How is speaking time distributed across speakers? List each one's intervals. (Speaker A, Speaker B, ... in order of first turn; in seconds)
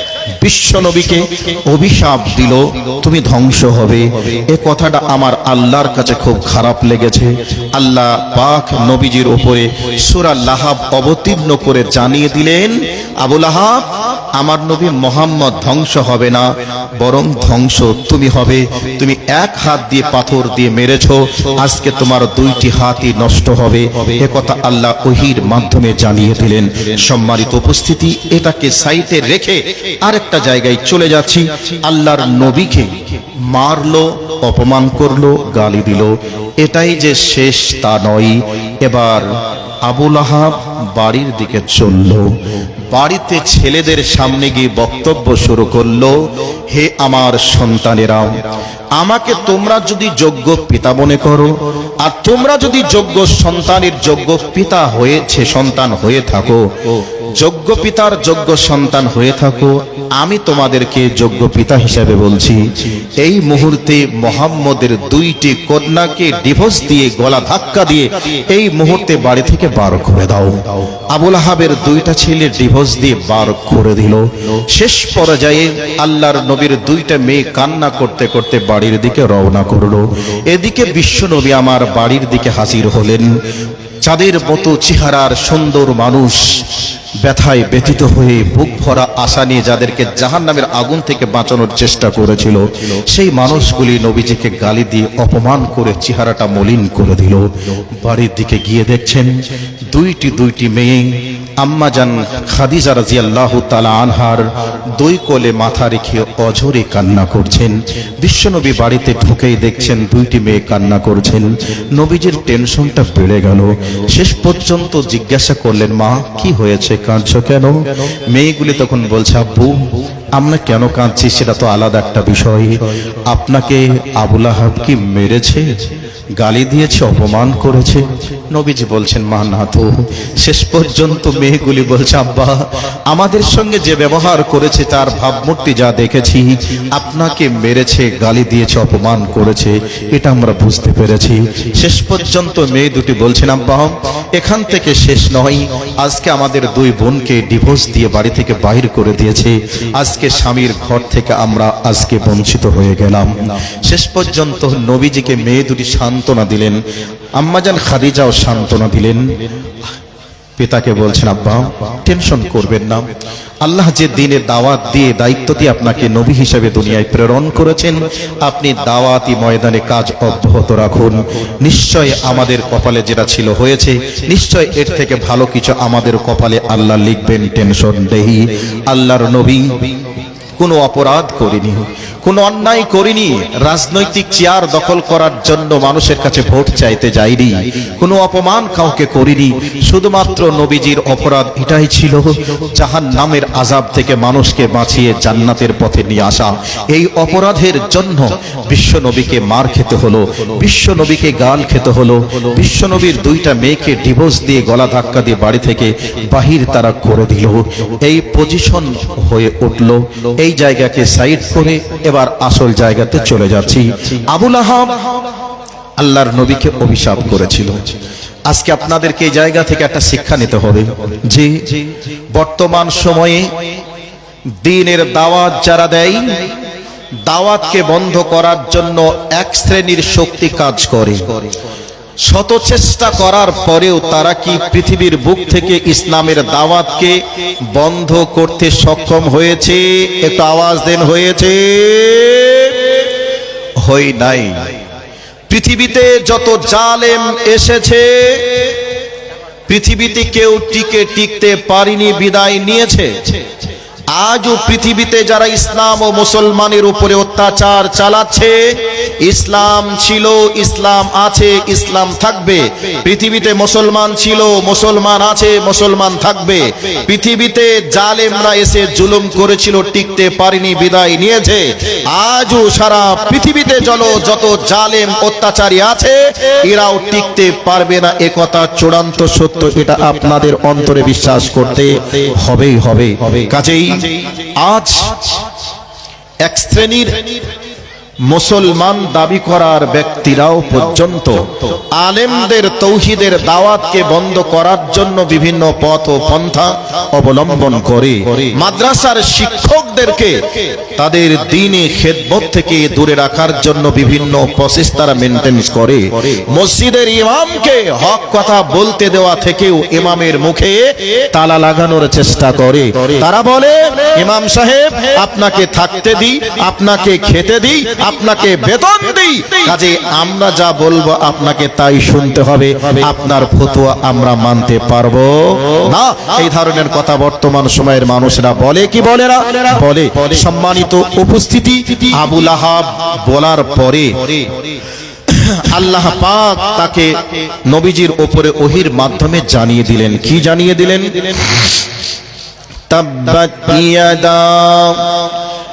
Speaker A: 0.4-48.4, 49.0-83.4, 84.0-125.8, 126.4-156.8, 157.3-159.4, 160.6-180.0, 180.6-215.2, 216.0-217.9, 218.5-223.7, 224.6-226.6, 227.3-231.4, 232.2-243.1, 243.8-244.7, 245.5-248.8, 249.7-253.4, 254.1-285.4, 286.4-287.4, 288.2-334.6, 335.3-341.7, 342.9-345.3